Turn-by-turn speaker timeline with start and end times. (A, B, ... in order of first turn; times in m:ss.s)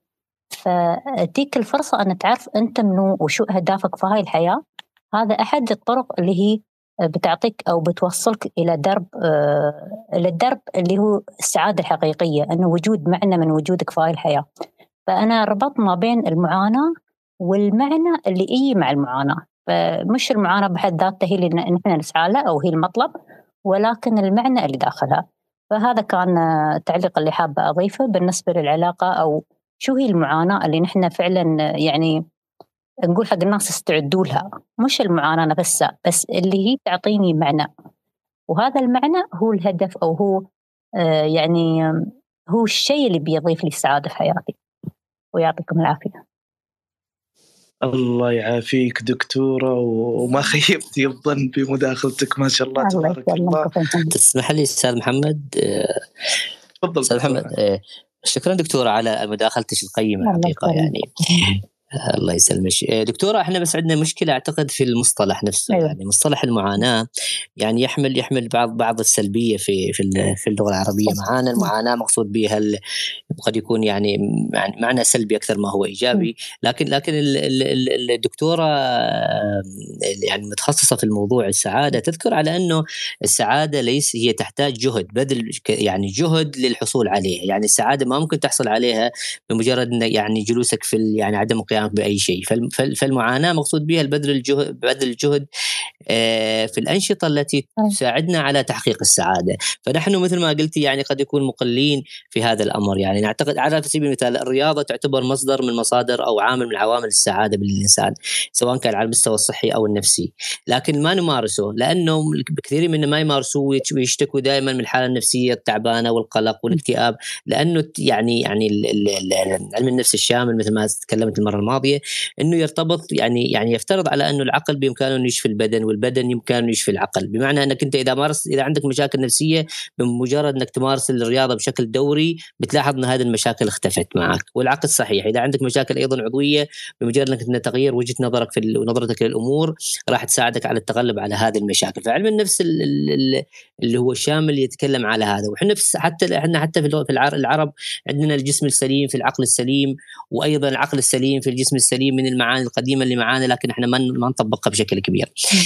0:00.6-0:04.6 A
0:05.2-0:06.6 A
0:07.1-0:14.4 A
0:15.1-0:16.8 A
0:17.4-0:23.1 A
0:23.7-0:32.1 A
0:33.1-0:37.7 A
0:38.5-0:40.4 A
0:41.0-0:41.7 A
0:42.5-0:44.6 A
0:45.3-0:46.2 A
0:47.8-0:53.7 B
0:52.8-0:54.1 A
0:54.1-0:56.0 C
0:56.8-0:57.5 B
0:57.0-1:01.6 C
1:00.2-1:01.4 A
1:02.1-1:07.0 C
1:07.6-1:12.7 C
1:13.4-1:19.7 C
1:20.3-1:35.4 C
1:36.1-2:35.3 C